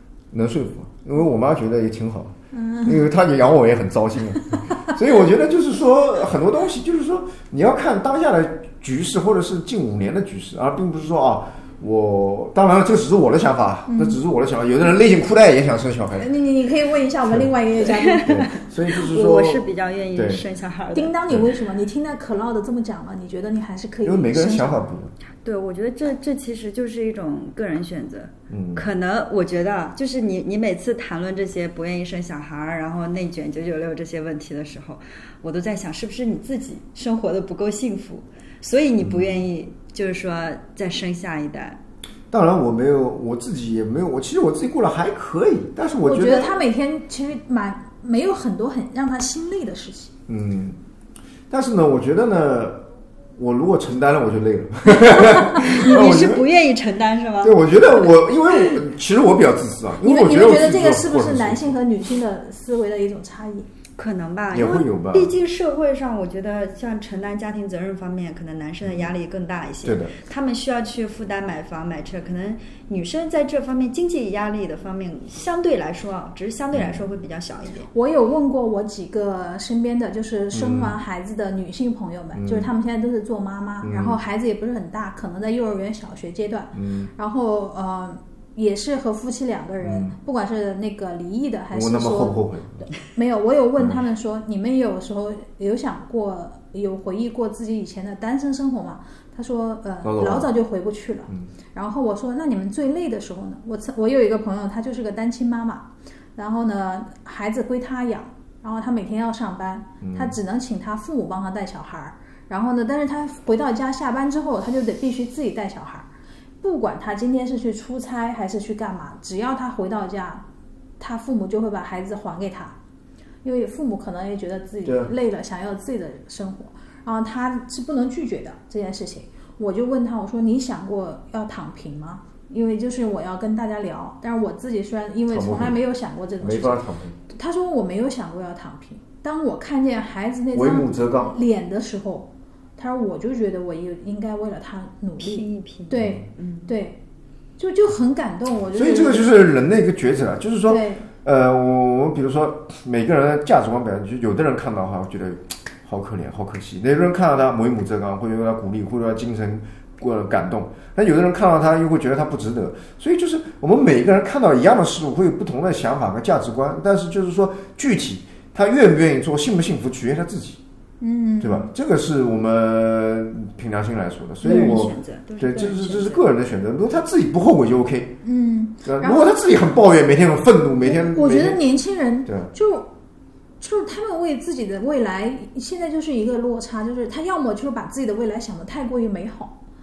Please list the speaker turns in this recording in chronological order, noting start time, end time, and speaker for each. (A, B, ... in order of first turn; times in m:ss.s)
0:00.3-0:16.3 A
0:02.5-0:03.1 B
0:13.9-0:14.2 B
0:16.2-0:18.6 B
0:18.0-0:21.2 C
0:18.2-0:20.4 A
0:20.9-0:24.9 B
0:24.0-0:25.1 A
0:25.4-0:41.8 C
0:28.5-0:28.8 A
0:39.0-0:39.4 A
0:42.3-0:46.5 A
0:46.0-0:50.1 B
0:50.3-0:50.8 A
0:51.5-0:52.8 A
0:53.4-0:56.4 A
0:55.3-0:58.7 C
0:57.4-1:01.8 A
1:00.0-1:03.7 B
1:04.0-1:17.9 C
1:04.5-1:05.3 A
1:09.8-1:10.1 A
1:16.7-1:17.0 A
1:17.9-1:32.4 B
1:20.5-1:21.0 A
1:22.3-1:22.7 A
1:23.8-1:24.2 A
1:26.7-1:27.1 A
1:29.8-1:30.1 A
1:31.7-1:32.9 A
1:33.0-1:56.1 B
1:40.0-1:40.5 A
1:50.0-1:50.4 A
1:56.6-2:00.4 B
2:01.0-2:02.7 B
2:03.4-2:27.0 B
2:04.8-2:05.1 A
2:15.3-2:15.8 A
2:16.4-2:17.2 A
2:20.5-2:21.3 A
2:25.2-2:26.7 C
2:26.0-2:26.2 A
2:27.6-2:29.4 B
2:28.7-2:50.6 A
2:30.6-2:31.1 B
2:51.0-2:51.7 B
2:51.4-2:58.1 A
2:54.4-2:54.8 B
2:54.4-2:56.2 C
2:58.2-2:59.3 B
2:58.8-3:01.6 A
3:00.8-3:02.9 B
3:02.2-3:02.5 A
3:03.6-3:09.5 B